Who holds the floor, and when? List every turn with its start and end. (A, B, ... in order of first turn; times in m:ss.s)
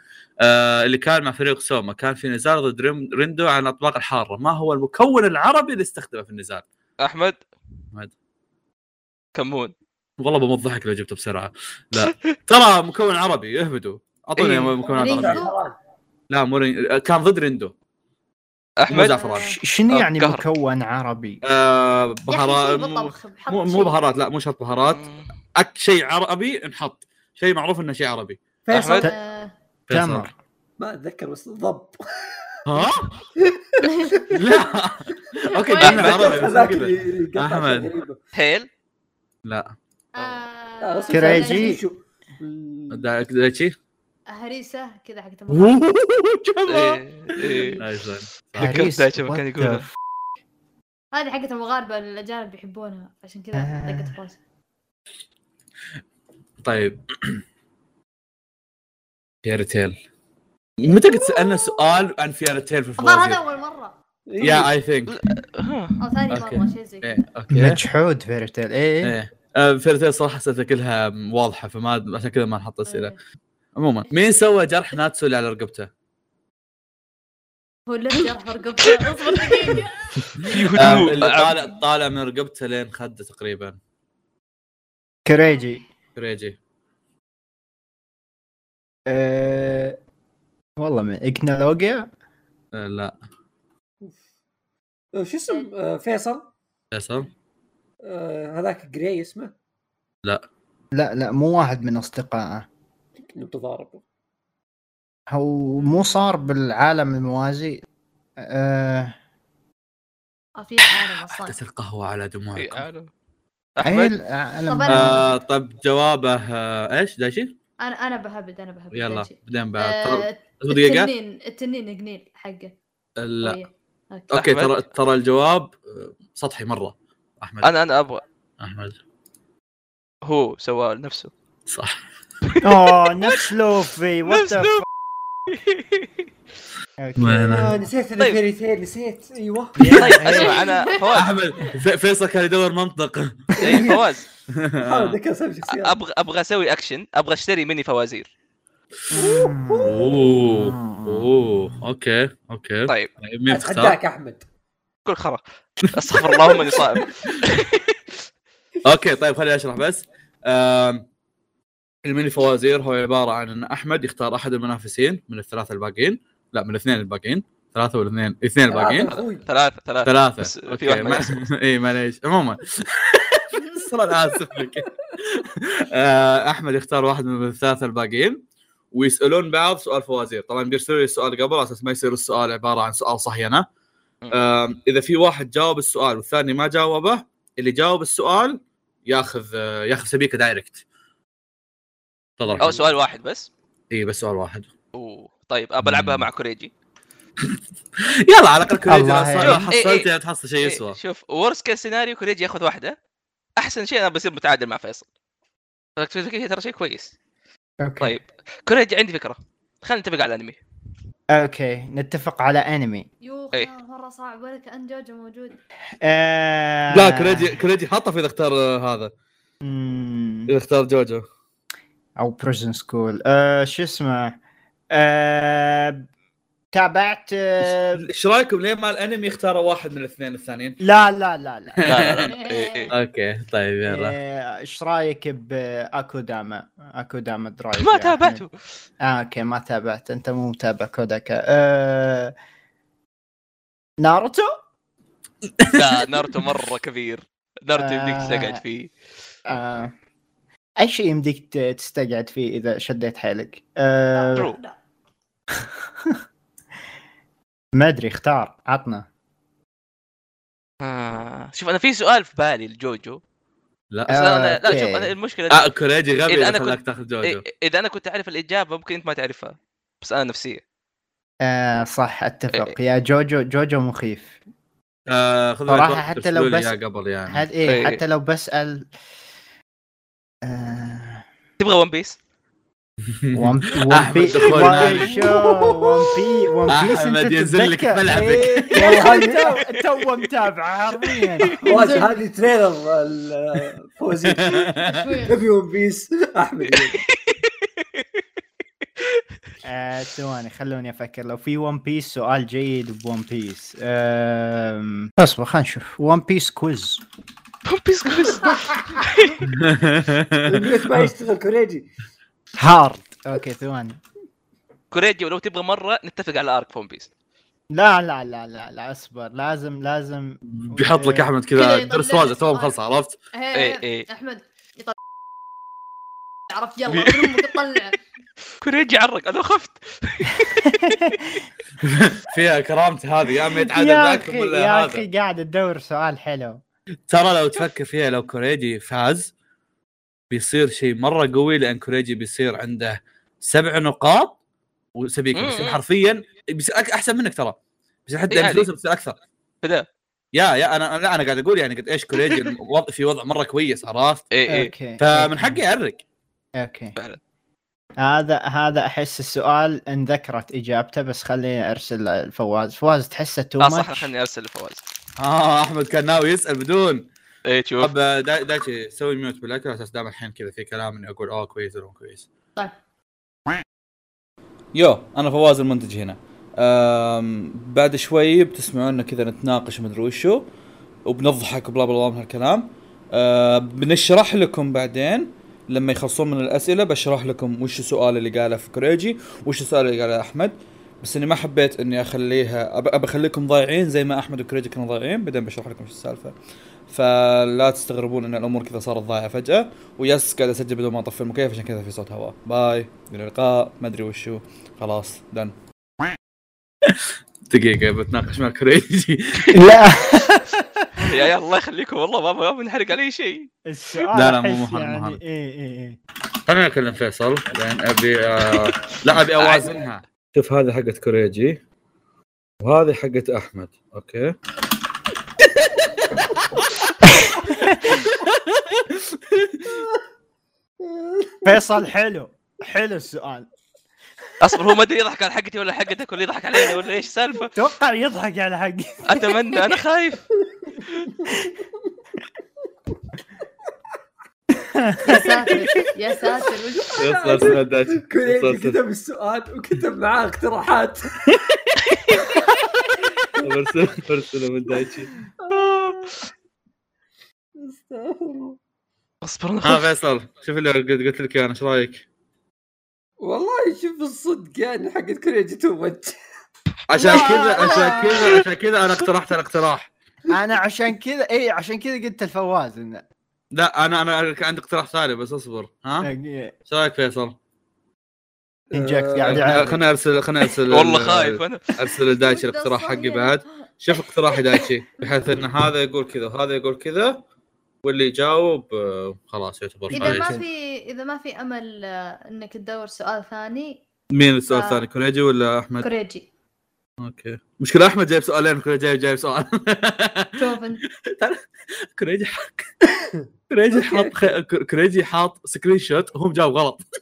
0:00.4-0:06.6 A
0:07.0-0:07.4 B
0:09.3-0:09.7 B
0:10.2-0:15.5 A
0:14.4-0:14.7 B
0:14.8-0:15.8 C
0:14.9-0:15.6 D
0:16.3-0:17.7 A
0:18.8-0:19.2 B
0:18.9-0:19.5 A
0:18.9-0:19.6 D
0:19.3-0:21.4 E
0:19.9-0:20.4 B
0:21.4-0:28.4 A
0:22.3-0:24.0 D
0:24.9-0:25.2 B
0:28.6-0:29.1 C
0:28.7-0:29.0 B
0:29.0-0:29.5 D
0:29.9-0:30.3 A
0:29.9-0:30.3 E
0:30.8-0:32.5 C
0:32.6-0:33.2 A
0:33.4-0:34.5 C
0:33.8-0:34.2 D
0:34.3-0:37.9 A
0:35.5-0:36.4 D
0:35.8-0:36.4 B
0:35.9-0:38.2 C
0:38.3-0:38.7 B
0:39.4-0:39.7 A
0:40.1-0:41.8 D
0:40.8-0:43.1 C
0:41.1-0:41.8 E
0:42.9-0:43.7 A
0:44.3-0:45.8 D
0:45.5-0:48.7 A
0:46.7-0:47.8 B
0:47.5-0:47.8 D
0:48.6-0:49.9 E
0:48.6-0:49.8 B
0:51.1-0:54.4 D
0:53.5-0:54.1 E
0:56.6-0:57.4 A
0:59.4-1:00.0 A
1:00.8-1:03.4 A
1:03.0-1:03.9 D
1:04.3-1:04.7 C
1:04.4-1:05.2 A
1:05.1-1:06.0 B
1:06.0-1:07.2 D
1:06.3-1:07.8 A
1:07.5-1:09.1 E
1:09.0-1:13.1 A
1:12.8-1:13.2 D
1:13.8-1:15.9 A
1:17.9-1:20.6 D
1:20.4-1:21.5 B
1:20.4-1:23.8 A
1:25.2-1:25.8 E
1:26.2-1:26.6 A
1:29.1-1:30.0 E
1:30.8-1:32.1 E
1:32.7-1:33.2 A
1:35.1-1:36.5 C
1:36.9-1:37.3 A
1:38.0-1:39.5 C
1:40.9-1:42.6 E
1:43.2-1:44.0 C
1:45.3-1:47.8 E
1:48.4-1:49.1 E
1:50.6-1:51.6 D
1:51.3-1:52.8 A
1:52.6-1:53.1 B
1:53.8-1:54.1 B
1:53.8-1:55.3 E
1:54.7-1:55.3 D
1:54.9-1:57.5 A
1:57.8-2:02.7 D
1:58.9-2:01.1 A
2:03.2-2:03.6 A
2:03.4-2:04.3 D
2:04.3-2:04.7 B
2:04.3-2:07.7 A
2:07.6-2:08.2 B
2:08.6-2:09.0 A
2:10.2-2:11.3 B
2:11.7-2:12.0 A
2:12.6-2:14.8 E
2:14.3-2:14.8 B
2:15.5-2:16.1 B
2:17.0-2:17.8 E
2:17.2-2:17.7 A
2:17.5-2:19.8 C
2:19.8-2:20.6 E
2:19.9-2:21.3 B
2:20.4-2:21.1 D
2:21.1-2:23.8 A
2:23.5-2:24.2 C
2:23.6-2:24.2 B
2:24.5-2:25.2 A
2:24.8-2:26.0 C
2:25.7-2:28.3 B
2:29.1-2:31.3 E
2:29.1-2:30.2 C
2:29.8-2:34.0 A
2:33.5-2:34.4 C
2:35.0-2:38.0 B
2:38.8-2:41.0 A
2:42.0-2:49.1 A
2:48.7-2:49.4 C
2:49.1-2:51.5 B
2:50.0-2:58.4 A
2:58.9-3:03.6 A
3:04.3-3:10.8 A
3:12.4-3:12.8 A
3:12.6-3:13.5 B
3:13.9-3:14.7 A
3:14.9-3:16.7 B
3:15.8-3:16.3 A
3:18.3-3:21.0 A
3:18.9-3:19.7 E
3:19.4-3:20.1 B
3:20.6-3:23.0 B
3:23.6-3:25.0 B
3:26.0-3:27.1 B
3:27.8-3:28.2 E
3:28.0-3:30.6 B
3:31.3-3:33.1 E
3:33.2-3:35.6 D
3:36.0-3:37.6 E
3:36.9-3:39.1 A
3:39.6-3:40.5 E
3:40.5-3:41.2 A
3:42.2-3:44.4 E
3:44.9-3:46.0 E
3:46.7-3:48.0 E
3:47.6-3:50.8 A
3:50.8-3:51.9 E
3:51.8-3:52.3 A
3:51.8-3:52.9 B
3:52.3-3:53.0 D
3:52.9-3:54.2 A
3:53.9-3:58.4 E
3:57.8-3:58.5 B
3:59.0-4:02.3 E
4:04.0-4:04.6 E
4:05.6-4:06.0 A
4:05.7-4:08.9 B
4:07.7-4:08.6 E
4:09.5-4:09.9 E
4:10.8-4:14.5 E
4:14.1-4:14.8 D
4:15.6-4:16.2 E
4:17.7-4:19.0 E
4:20.8-4:23.2 B
4:23.9-4:24.2 A
4:24.1-4:25.1 E
4:24.1-4:25.7 B
4:25.5-4:27.4 A
4:26.3-4:30.6 B
4:31.4-4:34.4 E
4:35.1-4:37.4 A
4:35.7-4:38.9 E
4:37.6-4:38.0 B
4:40.4-4:41.2 E
4:41.6-4:42.2 B
4:43.1-4:45.2 A
4:43.3-4:52.0 E
4:44.9-4:46.5 C
4:46.7-4:48.7 A
4:48.1-4:49.6 C
4:51.6-4:52.2 D
4:51.6-4:57.0 C
4:54.2-4:54.9 A
4:54.8-4:55.4 D
4:56.9-4:58.0 B
4:59.6-5:07.0 E
5:07.6-5:09.4 B
5:09.4-5:11.0 A
5:10.4-5:11.9 C
5:12.6-5:14.0 E
5:14.9-5:17.1 B
5:17.7-5:21.3 E
5:20.4-5:23.2 A
5:21.5-5:22.8 D
5:23.3-5:24.9 D
5:23.5-5:24.0 B
5:26.5-5:28.0 D
5:26.9-5:27.4 B
5:28.6-5:31.0 B
5:30.7-5:31.3 E
5:31.8-5:35.0 A
5:33.5-5:36.6 E
5:37.1-5:39.3 A
5:40.3-5:44.4 A
5:44.9-5:47.6 A
5:45.3-5:45.8 B
5:48.1-5:49.2 A
5:48.3-5:48.7 B
5:50.3-5:54.2 A
5:54.3-5:54.7 B
5:54.5-5:55.6 E
5:55.0-5:56.0 A
5:56.6-5:56.9 E
5:58.0-6:04.1 E
6:03.6-6:04.8 B
6:05.2-6:07.0 A
6:07.4-6:07.9 B
6:07.8-6:12.3 A
6:14.7-6:20.5 A
6:21.0-6:36.3 A
6:36.9-6:45.5 A
6:47.5-6:49.6 A
6:49.5-6:51.1 E
6:51.0-6:53.5 B
6:53.6-6:56.0 E
6:54.1-6:55.2 A
6:56.5-7:01.6 A
6:59.3-6:59.8 B
7:02.6-7:04.4 A
7:07.0-7:08.1 E
7:08.2-7:09.7 A
7:09.7-7:10.0 C
7:10.8-7:11.5 C
7:11.4-7:13.5 E
7:14.4-7:17.5 B
7:17.5-7:19.6 E
7:19.0-7:20.2 B
7:24.6-7:25.8 E
7:25.1-7:27.0 D
7:25.1-7:31.3 C
7:27.0-7:28.8 A
7:33.4-7:35.1 A
7:35.4-7:36.2 C
7:37.6-7:38.6 C
7:39.2-7:39.9 B
7:39.6-7:42.0 A
7:43.2-7:46.2 C
7:46.9-7:49.9 A
7:47.0-7:48.4 E
7:50.3-7:53.0 E
7:53.5-7:56.1 A
7:56.0-7:56.5 E
7:56.7-7:57.3 A
7:58.7-7:59.7 C
7:58.7-7:59.8 E
7:59.2-8:07.2 A
8:00.7-8:01.7 B
8:02.1-8:05.2 D
8:07.8-8:10.3 A
8:09.9-8:13.8 D
8:09.9-8:10.4 E
8:14.1-8:15.9 A
8:14.5-8:14.8 D
8:15.8-8:16.2 D
8:17.0-8:20.4 A
8:20.4-8:20.8 D
8:21.0-8:21.4 A
8:22.0-8:22.6 A
8:23.5-8:26.8 A
8:23.7-8:24.1 C